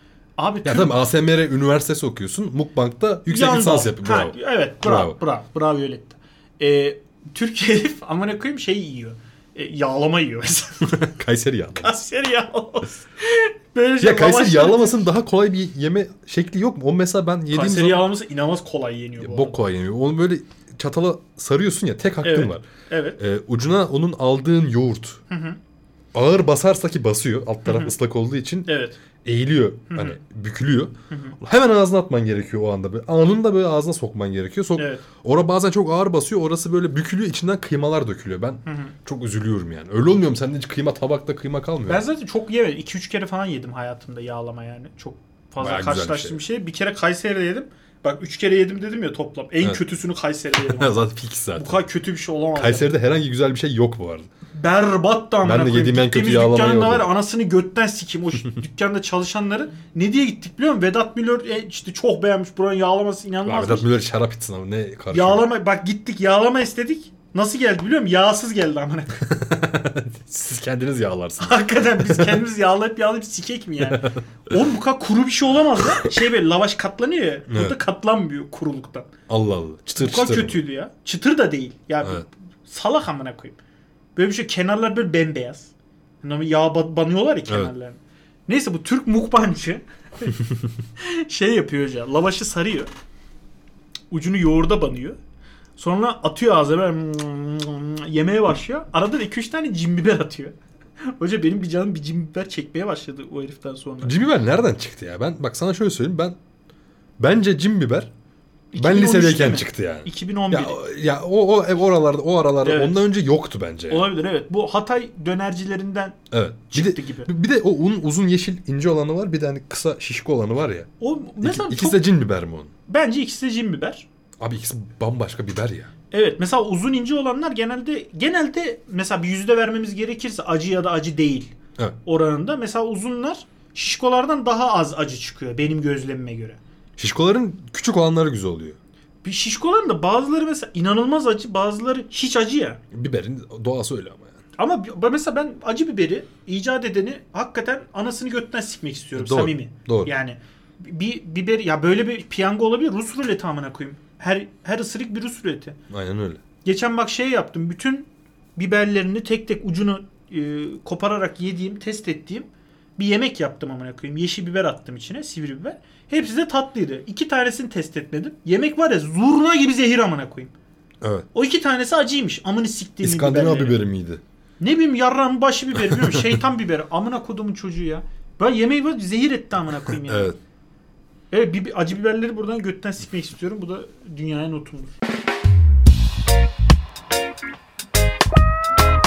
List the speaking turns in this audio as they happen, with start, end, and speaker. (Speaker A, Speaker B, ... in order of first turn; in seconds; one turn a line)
Speaker A: 0.4-1.0
Speaker B: 0.6-5.2
Speaker A: 3.3-11.0
Speaker B: 10.8-12.0
Speaker A: 11.8-15.1
Speaker B: 14.0-18.1
Speaker A: 17.5-19.6
Speaker B: 19.2-22.6
Speaker A: 22.2-23.2
Speaker B: 23.2-25.2
Speaker A: 25.3-25.6
Speaker B: 26.1-28.7
Speaker A: 27.6-27.9
Speaker A: 28.6-29.0
Speaker B: 29.2-42.0
Speaker A: 29.9-30.2
Speaker A: 31.1-31.4
Speaker A: 34.8-35.0
Speaker A: 38.6-38.9
Speaker A: 41.9-52.9
Speaker B: 45.6-46.4
Speaker B: 50.5-51.8
Speaker B: 52.5-54.3
Speaker A: 54.5-63.9
Speaker B: 55.4-57.1
Speaker B: 63.4-65.5
Speaker A: 65.1-69.3
Speaker B: 69.2-72.4
Speaker A: 71.4-79.1
Speaker B: 73.8-74.2
Speaker B: 77.5-77.8
Speaker B: 79.3-80.6
Speaker A: 80.0-83.6
Speaker A: 84.2-90.4
Speaker A: 91.0-92.9
Speaker A: 94.1-95.2
Speaker A: 95.8-100.5
Speaker A: 101.2-104.2
Speaker B: 104.0-106.4
Speaker B: 107.2-108.1
Speaker A: 108.7-110.8
Speaker B: 108.8-114.1
Speaker A: 112.6-113.0
Speaker A: 113.9-116.2
Speaker B: 116.3-120.9
Speaker A: 116.7-117.3
Speaker A: 121.0-122.0
Speaker B: 121.4-122.7
Speaker A: 122.9-124.0
Speaker B: 124.4-125.9
Speaker A: 126.1-131.5
Speaker A: 132.0-136.6
Speaker B: 137.0-138.8
Speaker A: 139.2-142.8
Speaker B: 142.9-144.3
Speaker A: 144.6-155.8
Speaker B: 149.1-150.1
Speaker B: 155.9-156.4
Speaker A: 156.6-170.5
Speaker B: 171.0-171.3
Speaker A: 171.3-173.8
Speaker B: 173.0-174.2
Speaker A: 174.6-180.3
Speaker B: 175.8-176.4
Speaker B: 180.0-180.4
Speaker A: 181.3-184.9